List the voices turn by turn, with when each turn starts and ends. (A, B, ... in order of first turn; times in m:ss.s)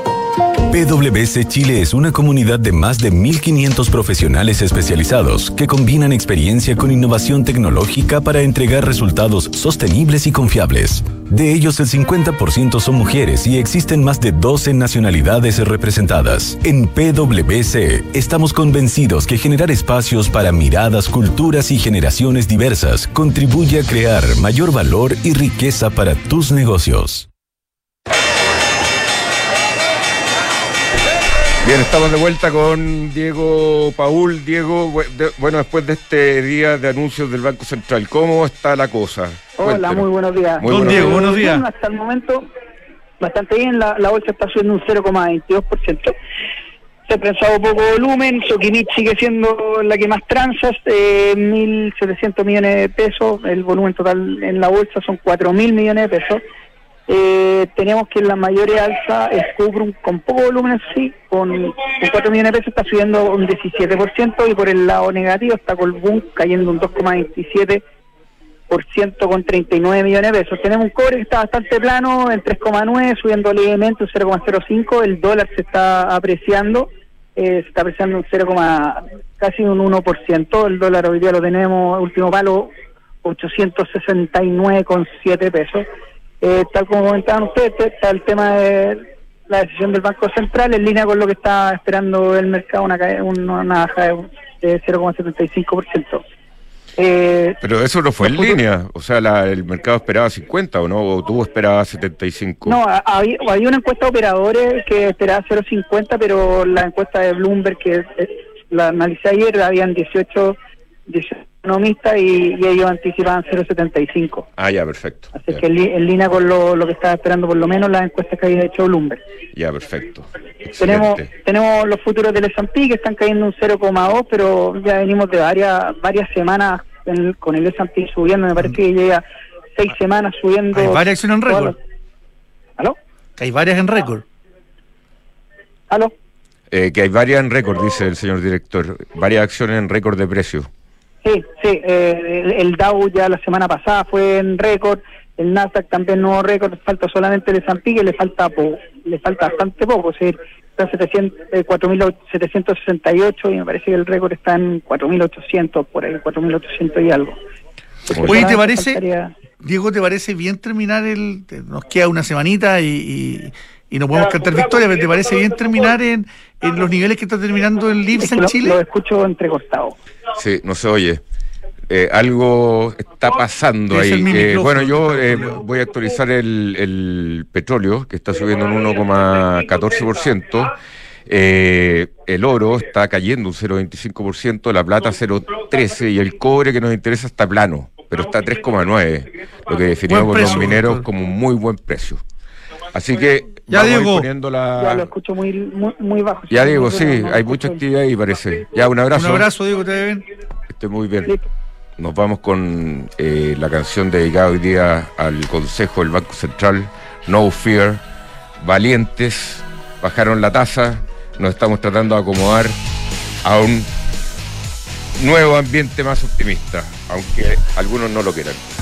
0:00.7-0:27.3 A
0:31.6-0:41.2 B
0:39.6-0:42.5 C
0:40.6-0:41.7 D
0:43.2-0:46.1 C
0:47.1-0:56.4 C
0:57.1-1:07.8 C
1:08.7-1:22.7 C
1:23.2-1:25.8 C
1:26.4-1:36.2 C
1:37.0-1:37.6 C
1:37.6-1:42.8 B
1:42.7-1:54.5 C
1:54.6-1:55.6 B
1:55.4-1:59.2 C
1:59.5-2:01.3 B
2:00.8-2:09.2 C
2:09.8-2:11.8 C
2:10.7-2:11.8 D
2:13.4-2:14.2 D
2:16.7-2:20.7 B
2:21.2-2:37.4 C
2:38.1-2:39.3 C
2:38.2-2:39.0 D
2:39.6-2:48.8 D
2:48.2-2:50.0 C
2:50.4-2:51.2 B
2:51.9-3:00.7 B
2:53.9-2:55.6 D
3:01.3-3:12.2 B
3:10.1-3:11.1 D
3:12.9-3:15.1 B
3:13.7-3:14.3 D
3:14.8-3:17.8 C
3:16.5-3:19.5 B
3:19.1-3:20.2 D
3:20.7-3:21.3 B
3:22.0-3:28.0 B
3:28.6-3:32.8 B
3:33.4-3:33.9 B
3:35.2-3:38.6 B